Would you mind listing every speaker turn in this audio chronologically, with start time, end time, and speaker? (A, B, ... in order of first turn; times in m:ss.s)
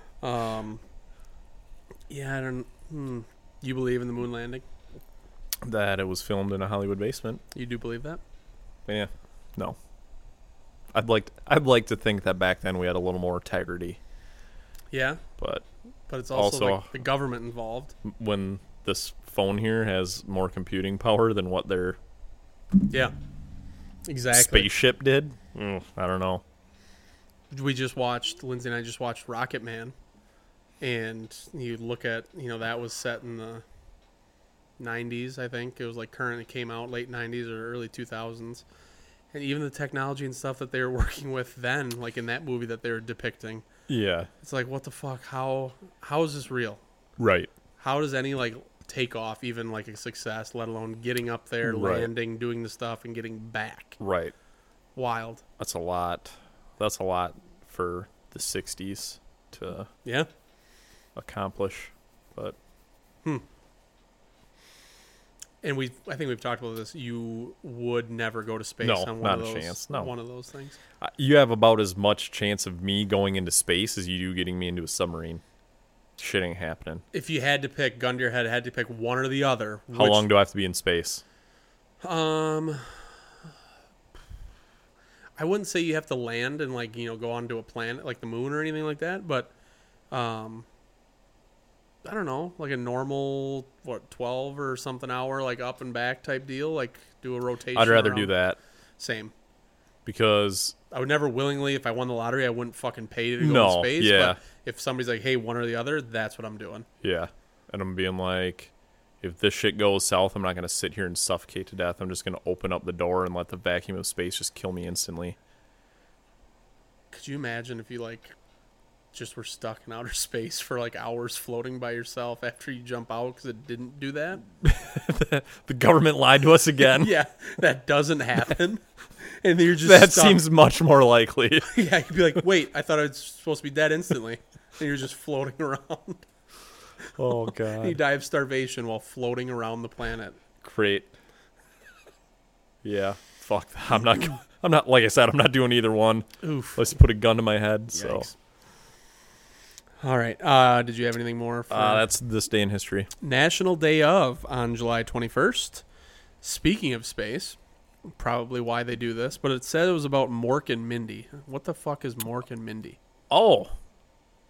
0:00.2-0:00.8 A
0:02.1-0:04.6 A
0:05.6-0:07.4 B
0:07.5-0:08.2 A
0:08.9-0:09.8 B
0:10.9-0:14.0 B
0:14.9-0:15.2 A
0:15.4-0:15.6 B
0:16.1-0:17.9 A
0:16.3-0:16.9 B
0:18.0-0:22.0 B
0:22.9-0:23.1 A
0:24.0-0:24.7 A
0:24.3-0:26.4 B
0:27.5-0:29.9 A
0:30.8-0:33.6 A
0:34.8-0:38.6 A
0:39.3-0:43.6 A
0:43.9-0:44.3 B
0:44.4-0:46.8 A
0:47.2-0:47.5 B
0:47.8-0:54.0 A
0:51.6-0:52.1 B
0:54.0-0:54.3 B
0:54.9-0:55.4 A
0:55.6-0:59.9 B
1:01.2-1:02.6 B
1:05.6-1:10.8 A
1:08.8-1:10.1 B
1:11.0-1:15.4 B
1:16.2-1:17.0 B
1:17.1-1:20.3 A
1:19.9-1:21.2 B
1:22.0-1:23.0 A
1:25.4-1:29.5 A
1:30.1-1:30.6 A
1:32.0-1:38.3 A
1:37.7-1:38.6 B
1:39.0-1:39.3 A
1:40.0-1:40.8 B
1:40.9-1:46.9 A
1:43.4-1:44.4 B
1:47.0-1:55.4 B
1:57.1-1:58.3 A
1:59.1-2:04.4 A
2:04.6-2:07.1 B
2:07.0-2:10.4 A
2:09.8-2:11.7 B
2:11.7-2:16.2 A
2:17.2-2:18.0 B
2:17.8-2:20.4 A
2:20.6-2:21.1 B
2:22.8-2:28.3 B
2:26.4-2:26.8 A
2:28.0-2:28.3 A
2:30.0-2:32.1 A
2:31.7-2:33.1 B
2:33.2-2:35.8 A
2:36.4-2:37.6 A
2:38.1-2:43.0 A
2:43.3-2:43.7 B